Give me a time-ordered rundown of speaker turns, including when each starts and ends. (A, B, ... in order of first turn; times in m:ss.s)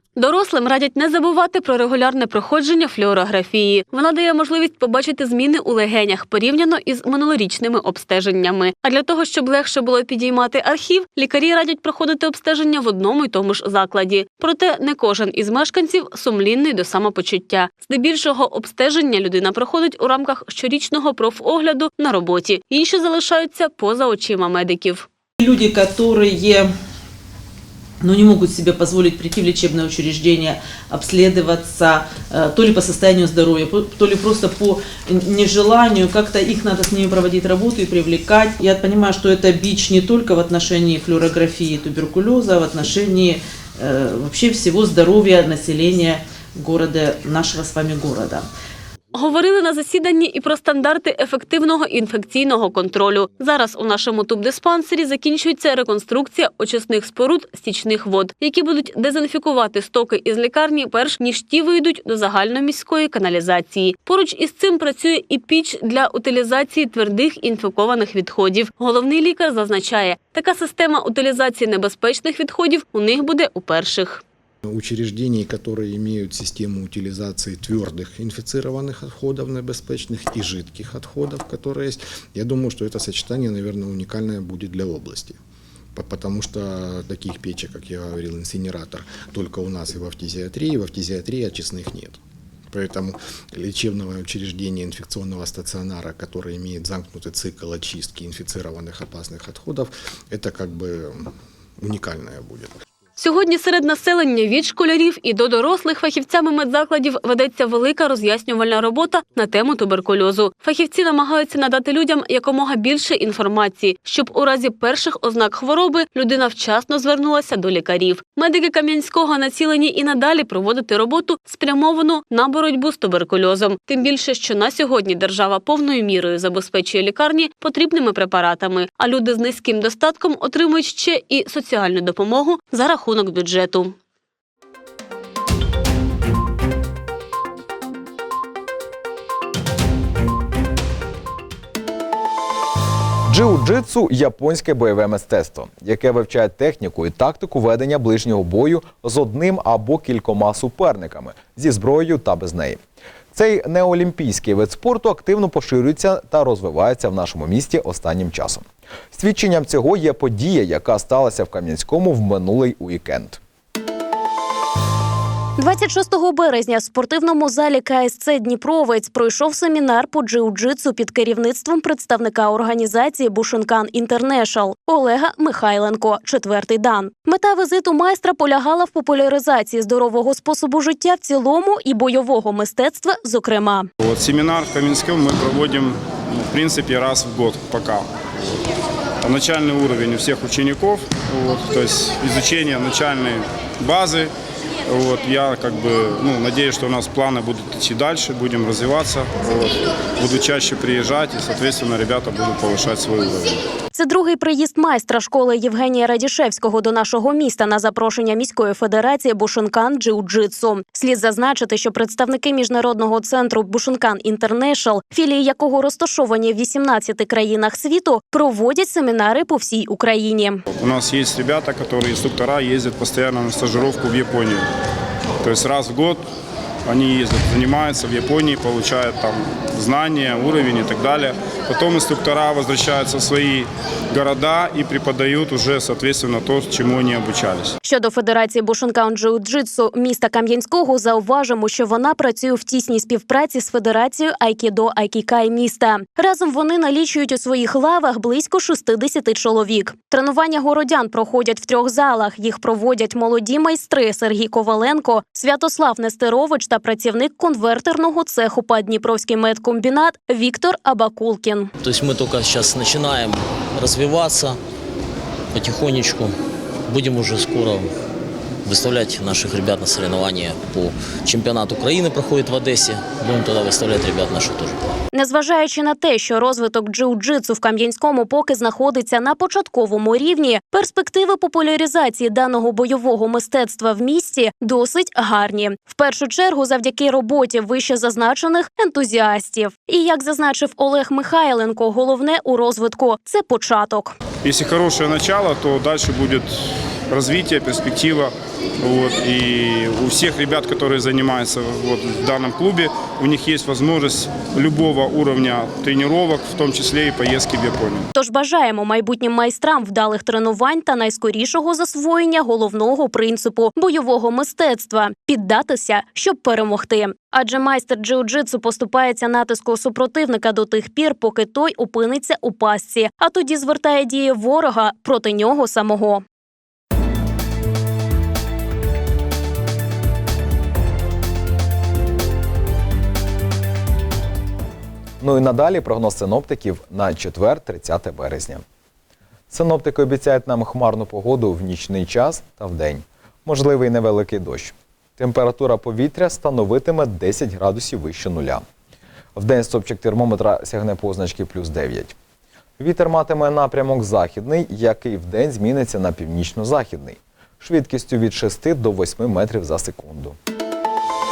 0:00.2-0:25.1 A
0:25.4-0:26.7 B
0:28.0-0:48.5 B
0:49.1-1:14.2 A
1:14.6-1:25.4 C
1:26.0-1:32.2 C
1:32.7-1:42.7 C
1:43.2-2:13.9 A
2:23.3-2:32.8 D
2:33.3-2:43.4 D
2:45.6-3:03.9 E
3:04.0-3:08.1 F
3:09.2-3:14.3 F
3:14.9-3:23.6 F
3:23.9-3:40.6 E
3:40.7-3:44.7 F
3:45.4-3:46.2 F
3:46.9-3:57.8 F
3:57.8-4:21.7 E
4:21.8-4:24.6 G
4:25.5-4:26.4 G
4:26.9-4:27.9 G
4:28.6-4:34.8 G
4:35.1-4:54.2 E
4:54.4-5:08.1 F
5:08.1-5:26.2 E
5:35.2-5:38.6 D
5:39.5-5:48.6 D
5:49.4-5:52.2 D
5:52.8-6:00.4 D